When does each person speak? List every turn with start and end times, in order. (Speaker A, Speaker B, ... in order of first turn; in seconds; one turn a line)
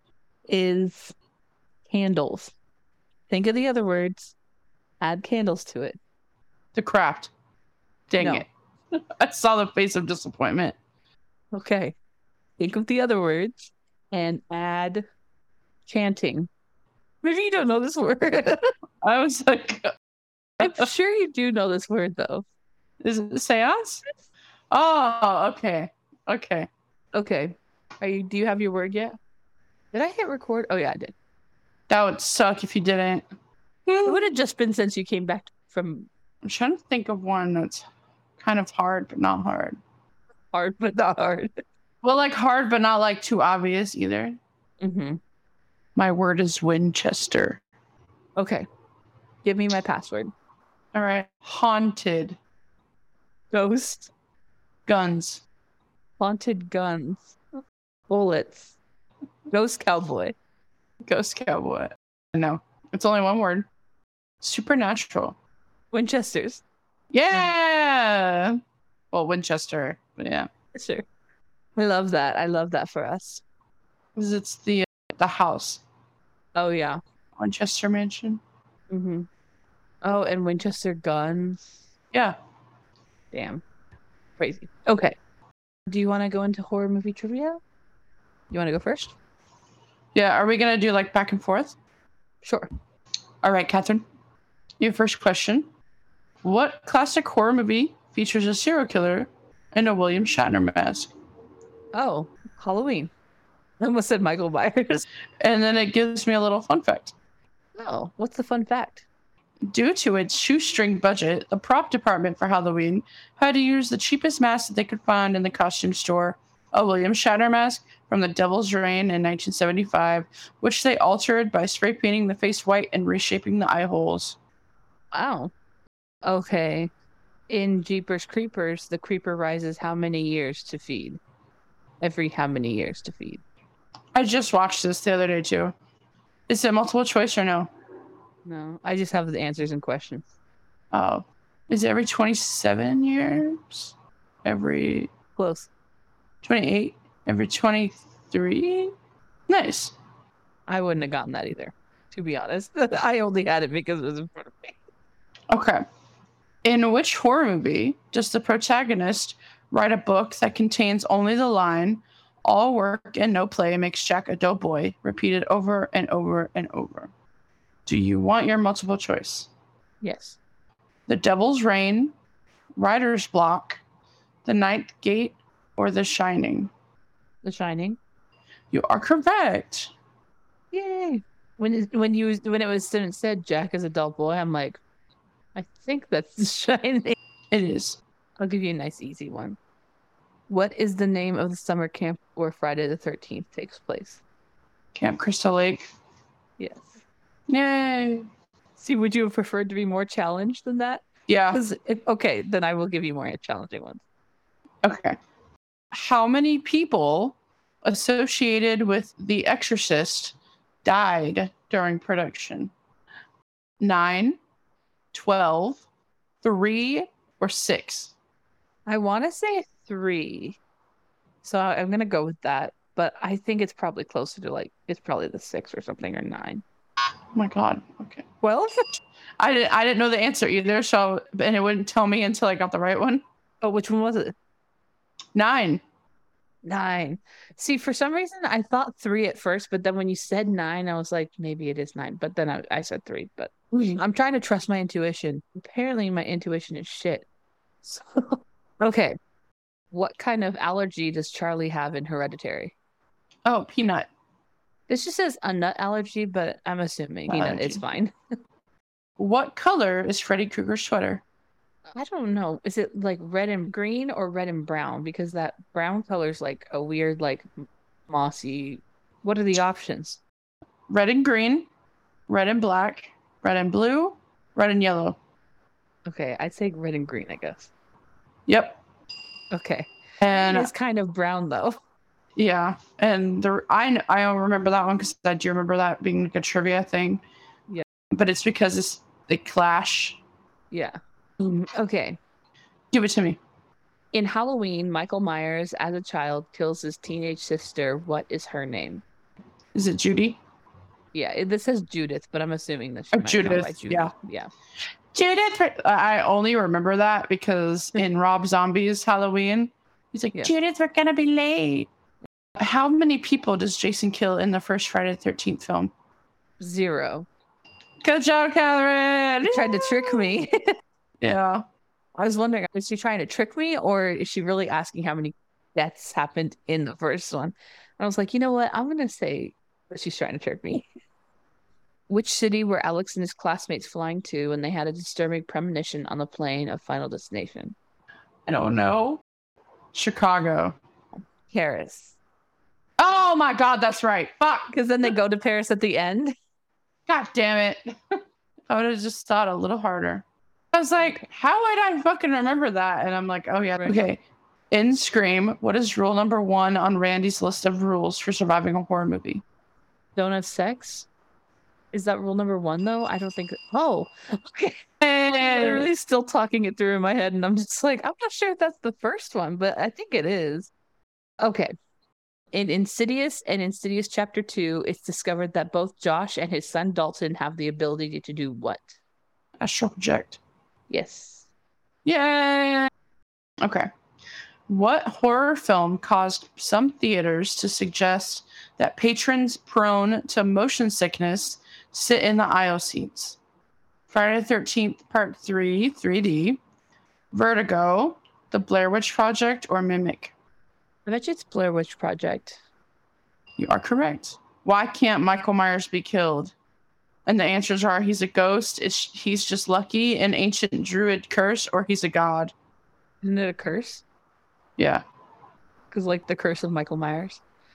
Speaker A: 0.5-1.1
Speaker A: 1.9-2.5
Speaker A: 3.3-4.3
Speaker A: 5.0-6.0
Speaker B: 6.7-7.3
Speaker B: 8.1-8.5
Speaker A: 8.2-8.4
Speaker B: 9.2-10.8
Speaker A: 11.5-11.9
Speaker A: 12.6-15.0
Speaker A: 15.8-16.5
Speaker A: 17.2-18.6
Speaker B: 19.0-19.9
Speaker B: 20.6-20.9
Speaker A: 20.6-22.4
Speaker B: 23.0-24.0
Speaker B: 24.7-26.7
Speaker A: 27.1-29.1
Speaker A: 29.9-31.1
Speaker B: 31.9-33.2
Speaker B: 33.9-34.2
Speaker A: 34.0-36.1
Speaker B: 36.4-37.8
Speaker B: 38.4-39.8
Speaker A: 40.5-41.5
Speaker B: 42.0-44.4
Speaker A: 44.8-45.2
Speaker B: 46.0-47.6
Speaker A: 48.4-48.6
Speaker A: 49.4-50.3
Speaker B: 50.9-52.4
Speaker A: 53.5-54.1
Speaker B: 54.9-55.4
Speaker A: 56.2-57.4
Speaker A: 58.1-58.8
Speaker A: 59.5-60.4
Speaker B: 61.1-63.7
Speaker B: 64.4-65.3
Speaker A: 65.9-66.6
Speaker B: 67.1-68.6
Speaker B: 69.1-70.5
Speaker A: 70.7-71.0
Speaker A: 71.8-73.4
Speaker B: 74.2-75.8
Speaker A: 76.5-77.0
Speaker B: 77.4-78.4
Speaker A: 78.9-79.3
Speaker A: 80.0-81.8
Speaker A: 83.3-83.6
Speaker A: 84.4-85.2
Speaker A: 85.9-87.6
Speaker A: 88.5-89.1
Speaker B: 90.1-91.7
Speaker A: 92.4-92.7
Speaker B: 93.4-94.0
Speaker B: 94.8-95.7
Speaker B: 96.4-101.1
Speaker A: 101.9-103.1
Speaker A: 103.8-105.0
Speaker B: 105.4-107.1
Speaker A: 107.8-109.0
Speaker B: 109.7-124.4
Speaker A: 125.1-125.5
Speaker A: 126.2-126.9
Speaker A: 127.5-131.2
Speaker A: 132.0-133.4
Speaker B: 134.1-135.7
Speaker B: 136.5-137.7
Speaker A: 138.4-140.2
Speaker B: 140.9-143.9
Speaker B: 144.4-145.1
Speaker A: 145.3-145.7
Speaker B: 146.4-148.9
Speaker B: 149.5-149.9
Speaker A: 150.7-154.8
Speaker B: 155.5-155.8
Speaker B: 156.6-167.1
Speaker B: 167.8-169.5
Speaker A: 170.0-170.4
Speaker B: 171.1-172.1
Speaker B: 172.8-173.8
Speaker B: 174.4-176.7
Speaker A: 177.4-178.0
Speaker B: 178.7-179.9
Speaker A: 180.7-184.8
Speaker A: 185.5-187.2
Speaker B: 187.5-188.0
Speaker A: 188.4-189.6
Speaker A: 190.5-194.2
Speaker B: 194.9-195.8
Speaker A: 196.6-197.0
Speaker B: 197.5-198.3
Speaker A: 198.8-204.0
Speaker B: 201.3-201.6
Speaker B: 204.8-205.2
Speaker B: 205.9-212.7
Speaker B: 213.8-214.4
Speaker B: 215.1-215.8
Speaker B: 216.4-218.1
Speaker A: 218.8-220.6
Speaker A: 221.4-226.6
Speaker B: 227.3-228.2
Speaker A: 228.4-228.7
Speaker B: 229.4-233.2
Speaker A: 233.6-234.3
Speaker B: 235.3-235.8
Speaker A: 236.6-247.2
Speaker A: 247.8-249.2
Speaker A: 249.9-252.7
Speaker B: 253.4-254.1
Speaker A: 254.9-258.1
Speaker B: 257.3-257.8
Speaker B: 259.2-261.2
Speaker A: 261.9-267.5
Speaker A: 268.1-270.2
Speaker B: 270.9-271.7
Speaker B: 272.3-275.2
Speaker A: 276.1-277.7
Speaker B: 278.5-278.8
Speaker A: 279.5-281.8
Speaker B: 280.2-280.7
Speaker B: 282.4-287.2
Speaker B: 288.1-290.2
Speaker A: 290.7-292.2
Speaker B: 292.9-293.4
Speaker A: 294.1-299.0
Speaker B: 299.7-300.4
Speaker A: 301.1-304.5
Speaker B: 303.1-304.1
Speaker B: 305.1-311.9
Speaker B: 312.6-315.9
Speaker A: 316.6-317.3
Speaker B: 318.0-320.4
Speaker A: 319.4-320.7
Speaker B: 321.2-321.6
Speaker A: 322.1-330.9
Speaker A: 332.1-337.7
Speaker B: 338.4-339.2
Speaker B: 339.9-340.8
Speaker A: 341.5-342.2
Speaker B: 343.0-345.1
Speaker A: 344.7-346.3
Speaker B: 347.1-347.9
Speaker B: 348.7-359.4
Speaker A: 360.1-361.1
Speaker A: 361.9-364.8
Speaker B: 365.0-365.9
Speaker A: 365.4-370.7
Speaker A: 371.4-371.7
Speaker A: 372.5-379.0
Speaker B: 379.6-380.4
Speaker A: 380.9-381.4
Speaker B: 382.0-382.9
Speaker B: 383.6-383.9
Speaker B: 384.7-393.4
Speaker B: 394.1-396.6
Speaker B: 397.3-400.3
Speaker A: 401.1-402.6
Speaker B: 403.6-406.5
Speaker B: 407.2-412.5
Speaker A: 413.2-414.0
Speaker B: 414.8-415.0
Speaker A: 415.9-417.4